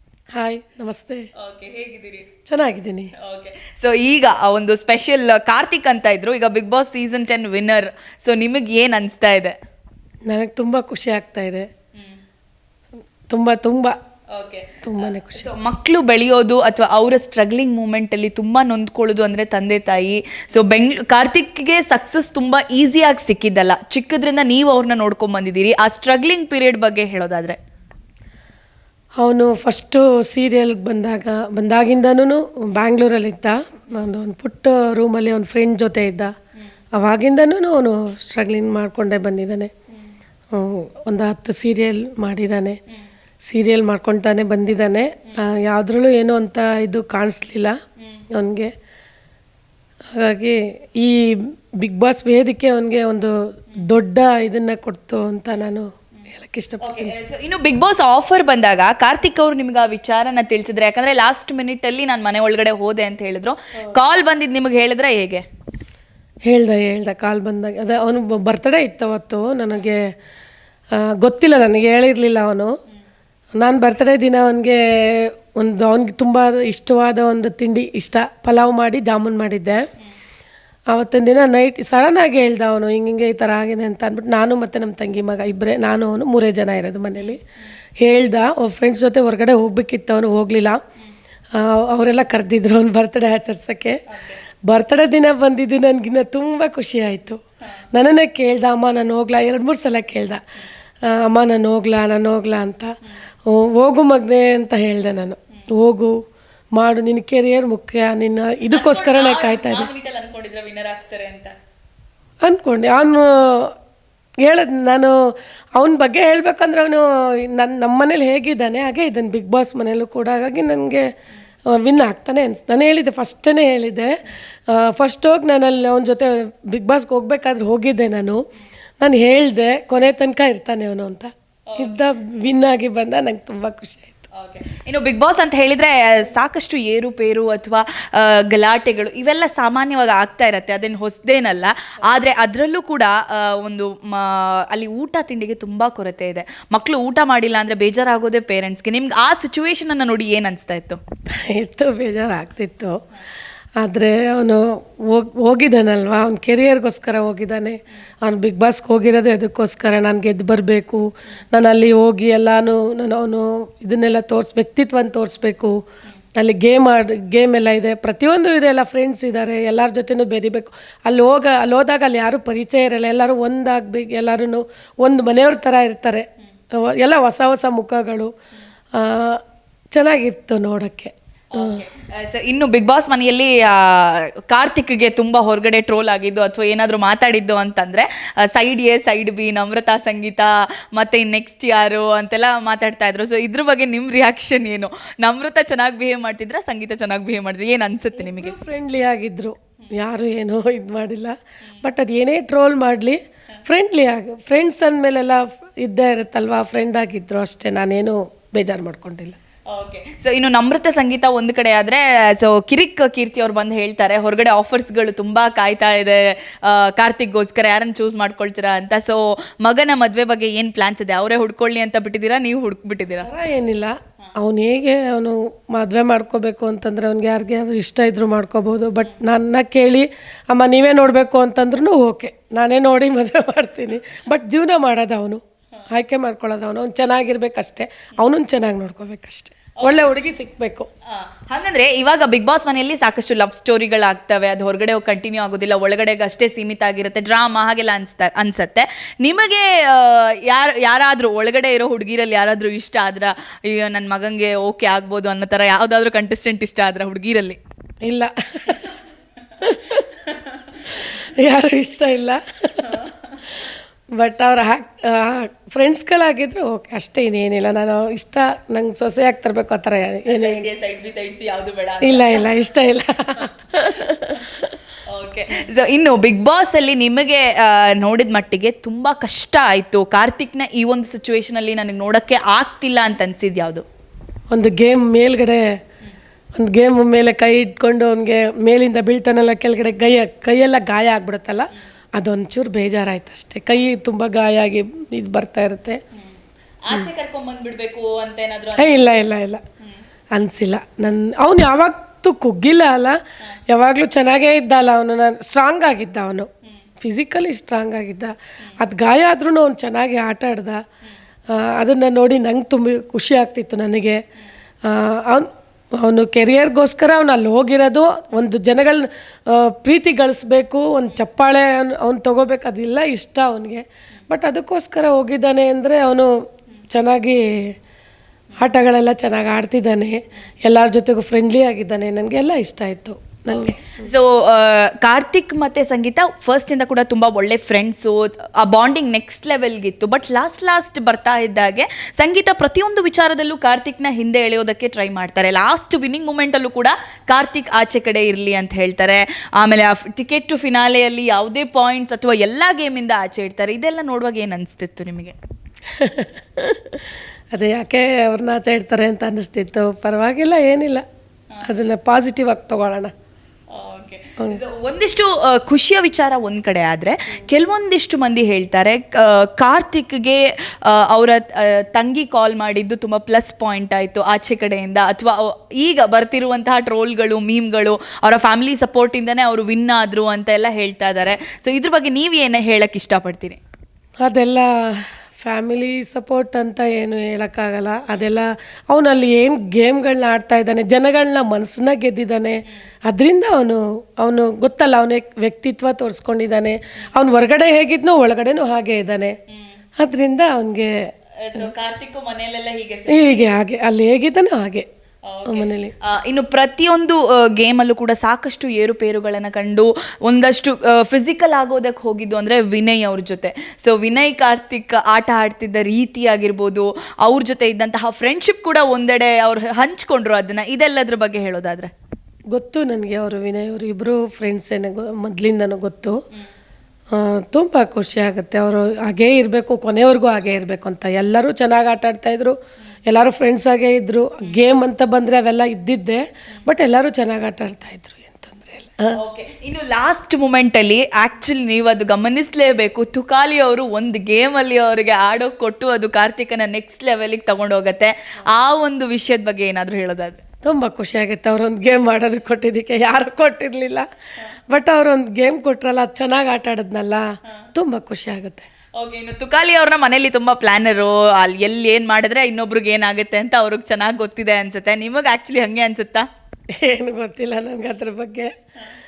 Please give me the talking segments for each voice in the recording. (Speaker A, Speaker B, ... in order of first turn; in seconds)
Speaker A: 0.3-1.2, 2.5-3.1, 10.3-11.7, 13.3-13.9, 14.8-15.5, 29.2-36.3, 37.0-39.7, 40.5-42.8, 43.5-47.8, 48.3-48.7, 50.2-57.1, 66.5-70.1, 70.9-72.7, 73.6-79.8, 80.9-87.4, 88.0-90.8, 91.5-94.0, 94.7-97.4, 97.9-100.4, 101.0-102.9, 103.5-106.1, 106.8-109.9, 112.4-113.7, 114.4-115.1, 115.8-121.0, 121.7-124.1, 124.7-128.4, 129.0-134.3, 151.3-152.9, 153.8-165.7, 166.3-178.3, 178.9-181.8, 198.1-209.4, 223.2-240.9, 258.0-258.9, 259.6-260.0, 260.9-262.9, 264.1-270.6, 272.0-274.7, 284.5-285.6, 286.6-296.0, 298.8-299.6, 300.3-303.1, 303.7-306.5, 307.0-310.8, 311.5-314.2, 314.8-326.3, 326.9-327.7, 328.6-334.1, 355.9-361.0, 361.6-363.1, 384.2-399.3, 400.0-400.9, 403.1-404.9, 405.4-405.9, 422.5-426.1, 427.1-432.6, 433.1-439.2, 450.6-454.1, 454.7-458.6, 466.8-468.5
Speaker B: 1.4-2.3, 3.2-9.5, 11.9-12.2, 14.3-27.6, 56.8-65.4, 94.1-94.4, 108.7-111.5, 131.7-131.9, 134.3-151.0, 181.5-198.6, 209.7-223.3, 241.1-257.6, 259.9-260.8, 262.8-263.4, 270.3-272.4, 273.8-274.4, 275.1-283.8, 296.8-299.2, 333.5-355.4, 363.7-383.6, 401.4-403.3, 405.2-421.9, 439.2-450.4, 459.0-466.2